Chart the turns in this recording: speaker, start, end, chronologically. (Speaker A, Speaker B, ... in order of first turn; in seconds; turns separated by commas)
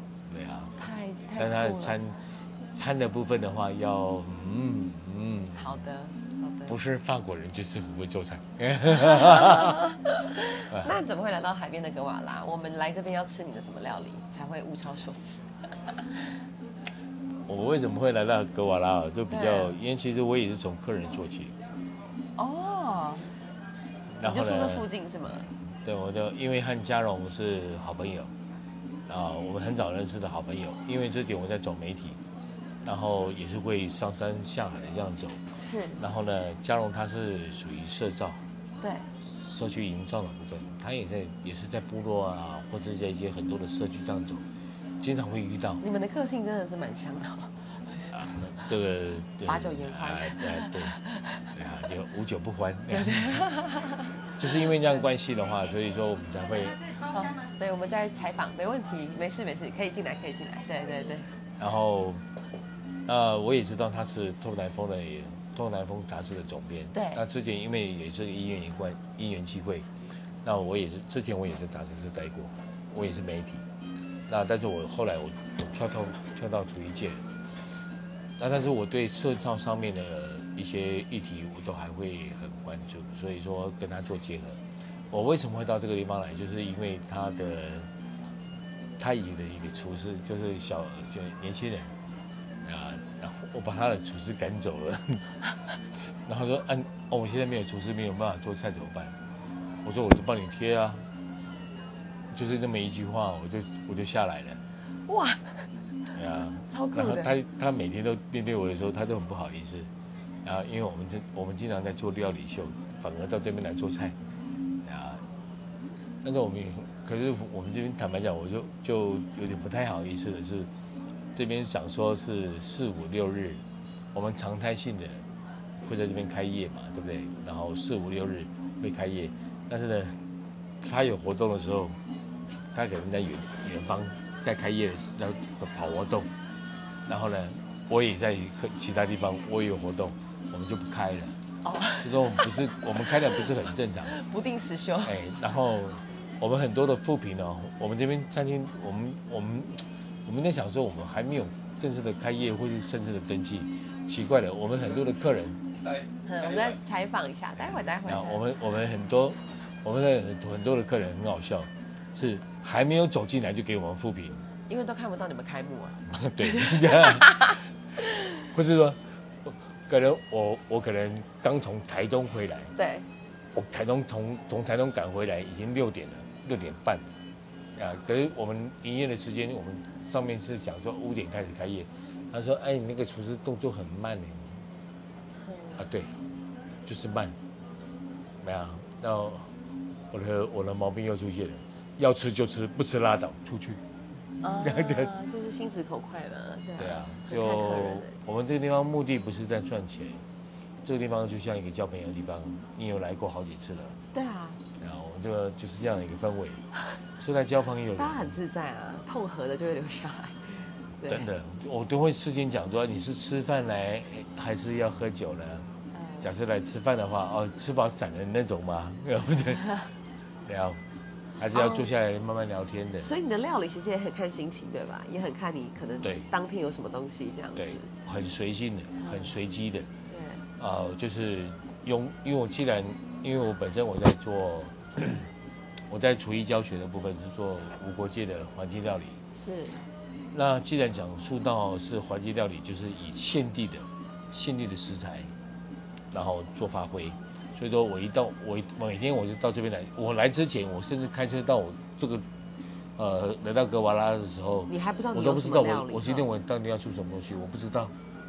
Speaker A: 0.3-0.8, Speaker B: 0.8-2.0, Speaker A: 1.4-5.8, Speaker B: 5.5-6.8, Speaker A: 6.7-9.8, Speaker B: 8.9-16.1, Speaker A: 10.7-11.0, Speaker A: 17.5-21.6, Speaker B: 19.3-19.7, Speaker B: 22.4-23.3, Speaker A: 24.1-24.9, Speaker B: 24.2-25.5, Speaker A: 25.8-28.3, Speaker A: 29.1-32.2, Speaker A: 32.8-35.4, Speaker B: 35.6-36.0, Speaker A: 36.0-38.4, Speaker B: 38.8-39.1, Speaker A: 39.2-44.5, Speaker A: 45.0-45.8, Speaker B: 45.8-48.1, Speaker A: 48.1-51.0, Speaker B: 49.5-51.5, Speaker A: 51.5-53.5, Speaker B: 52.9-54.1, Speaker A: 54.4-56.9, Speaker B: 57.1-61.3, Speaker A: 61.6-62.3, Speaker A: 63.1-69.9, Speaker B: 66.9-67.2, Speaker A: 70.4-73.6, Speaker A: 74.3-77.2, Speaker A: 78.4-87.9, Speaker A: 89.0-91.9, Speaker A: 92.6-95.2, Speaker A: 96.1-99.2, Speaker A: 99.8-101.1, Speaker A: 102.3-104.6, Speaker B: 105.1-105.7, Speaker A: 106.1-109.9, Speaker B: 106.7-107.3, Speaker A: 110.4-114.2, Speaker A: 114.8-115.2, Speaker A: 116.2-120.7, Speaker A: 121.3-123.6, Speaker A: 124.1-125.2, Speaker A: 125.8-130.2, Speaker A: 130.8-132.0, Speaker A: 132.7-136.3, Speaker A: 137.1-141.4, Speaker B: 141.6-142.4, Speaker A: 142.0-144.1, Speaker B: 144.1-145.1, Speaker A: 145.0-155.6, Speaker B: 156.3-158.4, Speaker A: 158.0-164.5, Speaker B: 164.7-168.3, Speaker A: 166.1-167.6, Speaker A: 168.4-172.7, Speaker B: 172.8-173.1, Speaker A: 173.5-177.1, Speaker A: 177.8-184.6, Speaker B: 185.4-185.8, Speaker A: 185.8-186.1, Speaker A: 186.9-187.4, Speaker A: 188.4-189.5, Speaker A: 190.1-193.8, Speaker B: 194.4-198.1, Speaker A: 194.6-195.1, Speaker A: 196.8-200.2, Speaker A: 200.8-204.0, Speaker B: 204.1-204.6, Speaker A: 204.8-206.6, Speaker A: 207.2-208.4, Speaker B: 207.9-211.3, Speaker A: 211.1-215.7, Speaker B: 216.0-216.3, Speaker A: 216.2-219.9, Speaker A: 220.4-220.8, Speaker A: 221.4-223.1, Speaker B: 221.5-221.9, Speaker B: 223.0-227.9, Speaker A: 226.0-226.3, Speaker A: 227.6-229.9, Speaker B: 229.0-229.3, Speaker B: 230.1-230.4, Speaker A: 230.6-235.3, Speaker A: 235.9-239.2, Speaker B: 239.3-239.8, Speaker A: 240.3-245.3, Speaker A: 246.1-252.2, Speaker A: 253.0-257.9, Speaker B: 254.7-256.3